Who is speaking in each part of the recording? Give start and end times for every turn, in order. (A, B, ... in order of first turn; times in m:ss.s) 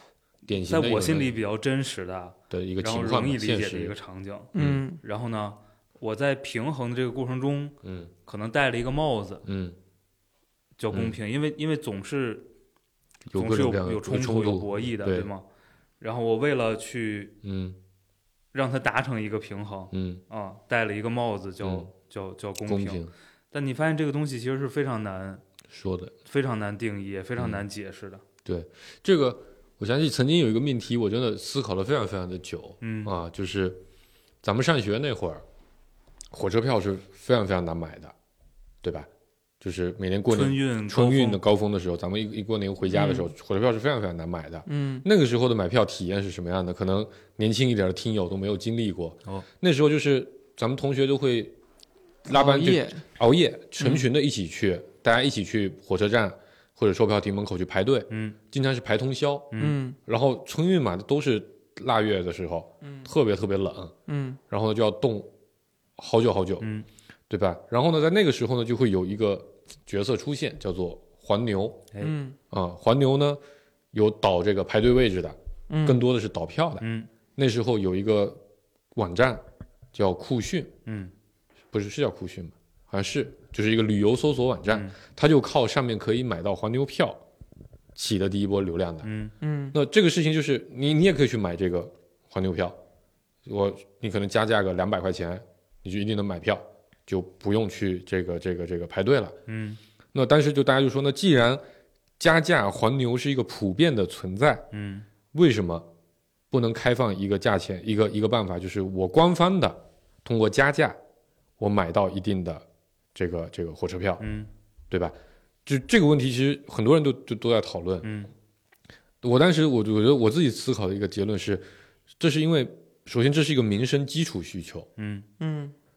0:00.5-0:01.4 A
0:00.5-0:09.4 B
0:02.5-0:04.0 A
0:04.6-0:04.8 A
0:04.6-0:05.0 C
0:07.8-0:08.1 A
0:09.4-0:09.8 A
0:10.8-0:12.5 B
0:13.3-0:15.3 A
0:13.3-0:15.4 B
0:16.0-0:17.4 B
0:17.4-0:17.8 A
0:18.5-0:25.4 B
0:19.9-0:20.2 A
0:21.6-0:21.9 A
0:22.7-0:23.1 A
0:25.7-0:26.1 A
0:26.3-0:28.2 B
0:27.4-0:27.6 A
0:28.4-0:33.8 A
0:32.8-0:33.1 B
0:34.4-0:35.4 A
0:36.3-0:38.1 A
0:38.8-0:39.1 A
0:39.6-0:51.6 A
0:40.3-0:41.4 B
0:42.9-0:43.3 C
0:44.7-0:45.0 C
0:52.3-1:03.9 A
0:52.3-0:53.0 C
0:53.8-0:54.0 C
0:58.1-0:58.4 B
0:59.6-1:00.0 C
1:04.1-1:04.4 C
1:04.5-1:05.3 A
1:06.0-1:06.7 A
1:06.6-1:06.9 B
1:07.3-1:11.9 A
1:12.0-1:12.4 C
1:12.5-1:13.4 A
1:13.9-1:18.4 A
1:15.7-1:16.0 C
1:16.8-1:17.1 B
1:19.0-1:19.4 A
1:19.9-1:20.8 A
1:20.9-1:21.1 B
1:21.7-1:27.2 A
1:24.7-1:24.9 B
1:28.0-1:29.1 A
1:29.0-1:29.3 B
1:29.4-1:29.8 C
1:29.7-1:32.8 A
1:33.5-1:39.4 A
1:39.5-1:39.8 B
1:40.1-1:41.6 A
1:42.2-1:44.7 A
1:44.7-1:45.0 B
1:45.3-1:45.9 A
1:46.5-1:51.0 A
1:51.6-1:52.6 A
1:53.2-1:54.2 A
1:54.2-1:54.5 B
1:54.9-1:58.1 A
1:58.0-1:58.3 B
1:59.2-2:01.7 A
2:02.2-2:04.9 A
2:05.0-2:05.3 B
2:05.4-2:05.7 C